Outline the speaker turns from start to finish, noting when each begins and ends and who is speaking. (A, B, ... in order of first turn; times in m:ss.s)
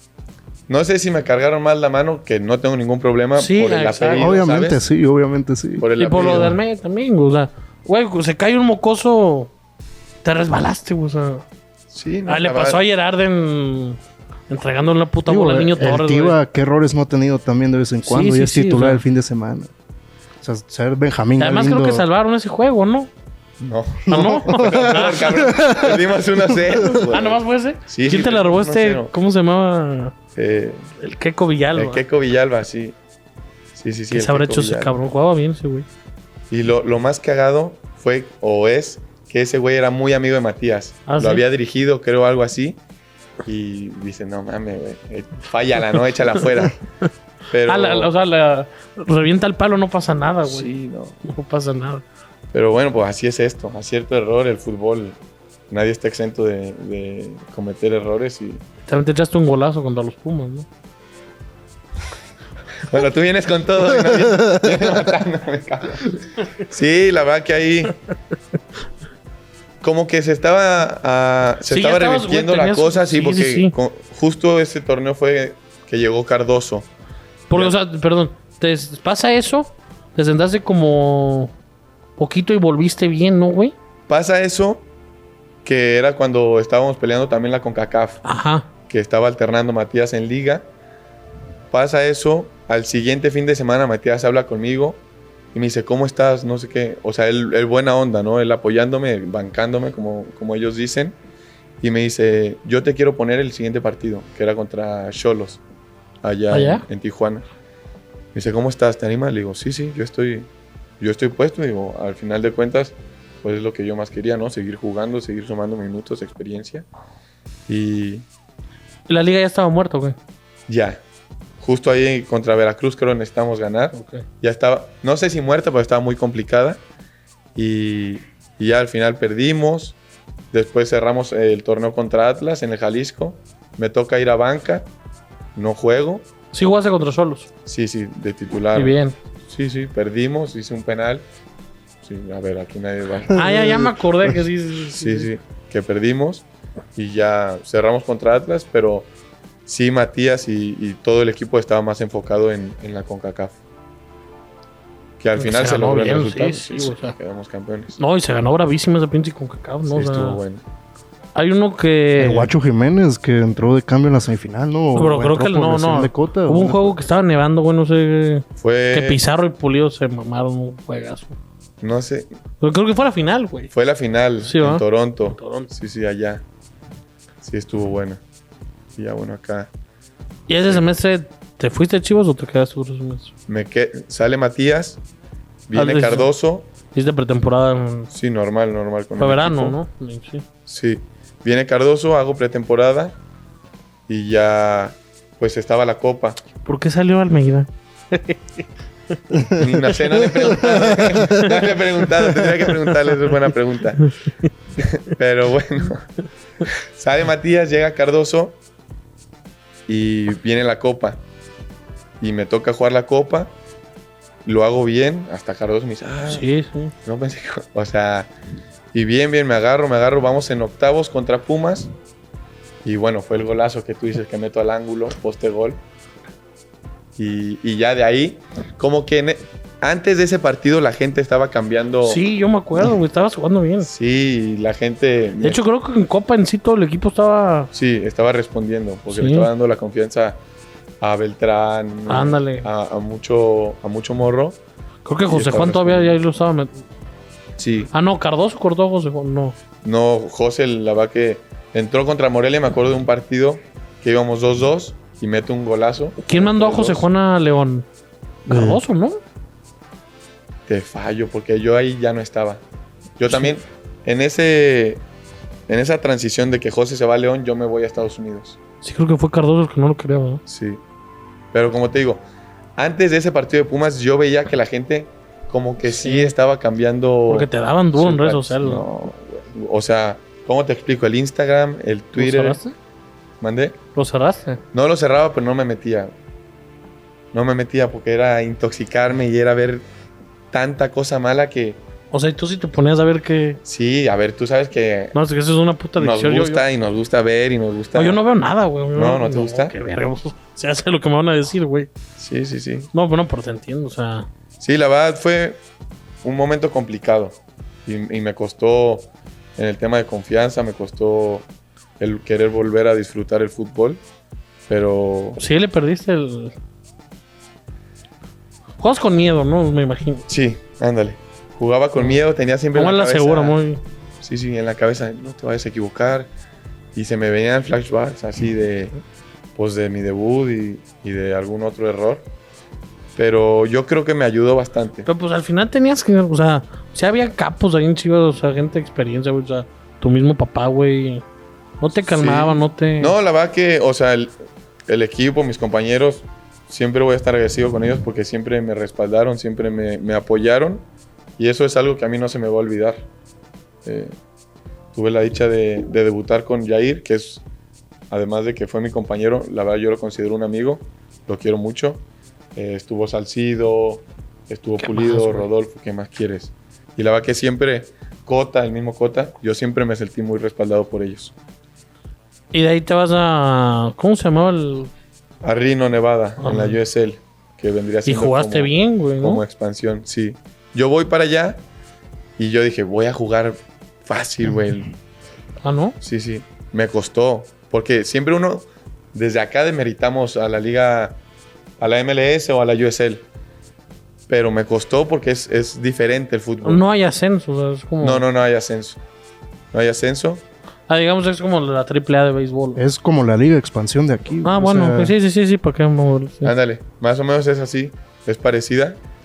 0:00.7-0:04.8 A
0:03.4-0:04.3 B
0:04.2-0:06.5 C
0:05.8-0:06.6 A
0:06.0-0:09.5 B
0:10.2-0:11.4 B
0:11.9-0:12.8 A
0:12.3-0:16.4 B
0:15.3-0:19.7 C
0:18.0-0:19.0 B
0:20.4-0:22.0 C
0:21.4-0:23.1 B
0:23.6-0:29.1 A
0:24.1-0:25.3 B
0:24.1-0:27.0 C
0:26.9-0:30.2 B
0:30.4-0:30.9 A
0:31.0-0:32.0 B
0:31.7-0:33.0 A
0:33.8-0:34.9 A
0:34.1-0:35.9 B
0:36.5-0:42.8 A
0:41.1-0:41.4 B
0:43.4-0:46.8 A
0:47.5-0:48.1 A
0:47.6-0:50.7 B
0:50.4-0:51.2 A
0:51.2-0:52.0 B
0:52.5-0:55.2 A
0:55.7-0:58.6 A
0:58.9-1:00.7 B
1:02.8-1:08.0 A
1:09.8-1:16.9 A
1:11.7-1:13.8 B
1:17.5-1:21.5 B
1:22.2-1:23.8 B
1:24.1-1:24.9 A
1:25.6-1:28.2 A
1:28.2-1:28.7 B
1:28.9-1:30.7 A
1:31.7-1:35.0 A
1:35.5-1:41.2 A
1:41.8-1:45.6 A
1:46.2-1:47.4 A
1:46.5-1:46.9 B
1:48.3-1:50.5 A
1:51.0-1:56.9 A
1:57.7-1:58.3 A
1:59.1-2:00.2 B
2:00.7-2:01.0 A
2:01.6-2:06.8 A
2:03.9-2:04.2 B
2:07.6-2:10.0 A
2:10.5-2:14.9 A
2:15.6-2:16.3 A
2:16.5-2:17.5 B
2:17.7-2:21.2 A
2:18.8-2:19.2 B
2:22.0-2:23.8 A
2:23.3-2:25.3 B
2:23.4-2:23.9 C
2:24.9-2:29.1 A
2:29.7-2:33.6 A
2:35.2-2:38.0 A
2:35.4-2:37.2 B
2:38.0-2:40.4 B
2:39.9-2:40.6 A
2:41.4-2:42.5 B
2:42.2-2:46.9 C
2:44.9-2:51.4 B
2:48.6-2:49.2 A
2:51.8-2:52.3 A
2:52.6-2:53.7 B
2:53.7-2:56.4 A
2:54.4-2:55.7 B
2:57.4-2:58.2 A
2:59.0-2:59.7 A
3:00.5-3:03.3 B
3:03.5-3:05.0 A
3:05.7-3:06.7 A
3:05.7-3:06.3 B
3:06.9-3:08.1 B
3:08.1-3:09.8 A
3:09.2-3:10.5 B
3:10.7-3:13.2 A
3:14.1-3:16.4 A
3:16.6-3:19.2 B
3:19.3-3:19.7 C
3:19.6-3:24.1 A
3:19.9-3:23.0 B
3:20.6-3:21.3 C
3:24.1-3:24.5 B
3:24.8-3:26.1 A
3:27.0-3:28.6 A
3:29.9-3:31.2 A
3:32.2-3:33.5 A
3:34.4-3:36.4 A
3:36.3-3:36.9 B
3:37.0-3:38.3 A
3:38.9-3:41.9 A
3:42.8-3:45.8 A
3:47.2-3:52.2 A
3:52.0-3:53.9 B
3:53.8-3:55.6 A
3:55.4-3:57.7 B
3:57.7-4:00.4 A
3:59.1-3:59.5 B
4:01.0-4:04.6 A
4:02.1-4:02.7 B
4:05.0-4:06.8 B
4:05.3-4:06.2 A
4:07.6-4:07.9 A
4:07.9-4:09.6 B
4:09.8-4:17.1 A
4:16.2-4:17.9 B
4:18.5-4:19.2 B
4:18.5-4:18.8 C
4:20.7-4:22.6 A
4:23.2-4:25.0 A
4:25.7-4:28.6 A
4:28.8-4:30.4 B
4:30.5-4:30.8 A
4:31.5-4:32.2 A
4:32.8-4:42.6 A
4:35.8-4:36.3 B
4:37.3-4:38.9 B
4:42.2-4:42.8 B
4:43.4-4:43.8 A
4:44.0-4:44.6 B
4:44.7-4:46.1 A
4:47.3-4:49.9 A
4:50.5-4:51.8 A
4:52.1-4:53.6 B
4:53.6-4:55.2 A
4:55.1-4:56.7 B
4:56.0-4:58.2 A
4:57.9-5:01.9 B
4:59.0-4:59.8 A
5:02.2-5:02.9 A
5:02.9-5:04.3 B
5:04.6-5:05.6 A
5:06.2-5:11.5 A
5:12.0-5:14.0 A
5:14.7-5:15.4 A
5:15.4-5:16.5 B
5:18.8-5:20.3 B
5:20.3-5:23.6 A
5:22.8-5:23.8 B
5:24.2-5:26.3 A
5:26.9-5:29.0 A
5:29.6-5:32.2 A
5:33.2-5:35.1 A
5:35.1-5:41.2 B
5:41.8-5:43.1 B
5:42.0-5:44.3 A
5:44.9-5:50.8 A
5:51.4-5:53.1 A
5:53.8-5:54.2 A
5:54.9-5:57.4 A
5:58.1-6:02.0 A
6:02.6-6:11.3 A
6:04.8-6:05.5 B
6:12.5-6:14.9 B
6:15.4-6:21.6 A
6:16.4-6:16.8 B
6:18.0-6:19.4 B
6:22.4-6:24.9 A
6:25.6-6:26.0 B
6:26.0-6:31.2 A
6:31.8-6:33.2 A
6:34.3-6:36.8 A
6:36.6-6:38.2 B
6:38.0-6:39.0 A
6:39.7-6:40.4 A
6:40.9-6:42.8 B
6:42.8-6:45.1 C
6:44.4-6:46.5 B
6:46.4-6:49.0 A